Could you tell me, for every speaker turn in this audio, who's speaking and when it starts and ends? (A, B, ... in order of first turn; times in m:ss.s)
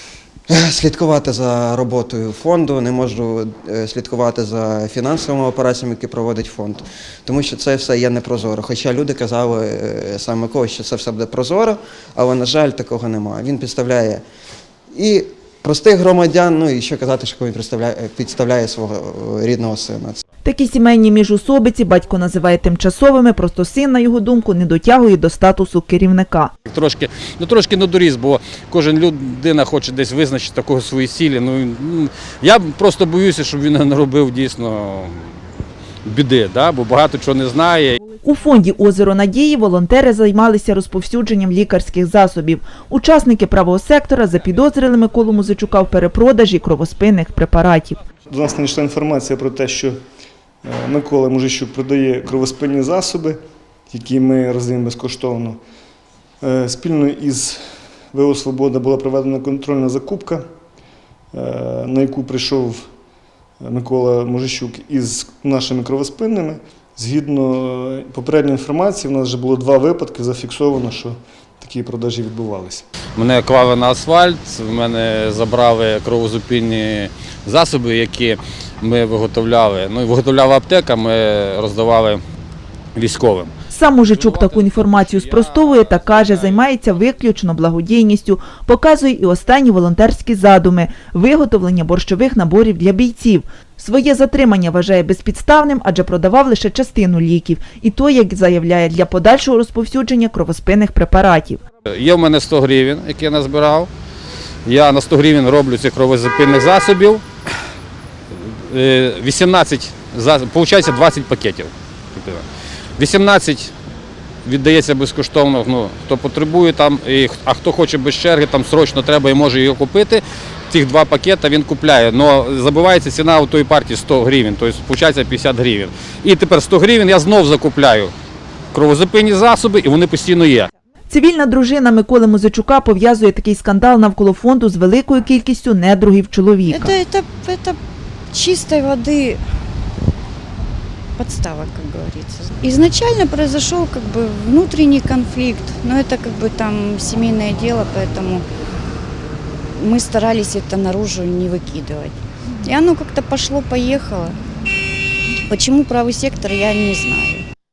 0:00.5-0:14.2 A
0:14.9-0:20.2 A
0:20.4-0:26.5 B
0:26.7-0:35.2 C
0:36.1-0:38.0 C
0:38.2-0:48.0 B
0:48.3-0:50.0 D
0:50.6-0:53.4 D
0:53.9-0:55.6 D
0:56.4-0:57.6 D
0:58.1-1:00.4 D
1:01.3-1:02.8 D
1:03.6-1:12.8 D
1:13.2-1:22.2 C
1:23.0-1:27.1 C
1:23.7-1:41.6 B
1:41.9-1:43.9 C
1:44.7-1:47.2 C
1:48.3-1:52.4 C
1:53.0-1:53.7 C
1:54.4-2:08.1 C
2:08.7-2:10.7 C
2:11.1-2:17.0 B
2:16.7-2:17.8 E
2:18.3-2:19.4 E
2:21.2-2:28.5 E
2:29.8-2:34.4 E
2:35.5-2:37.4 E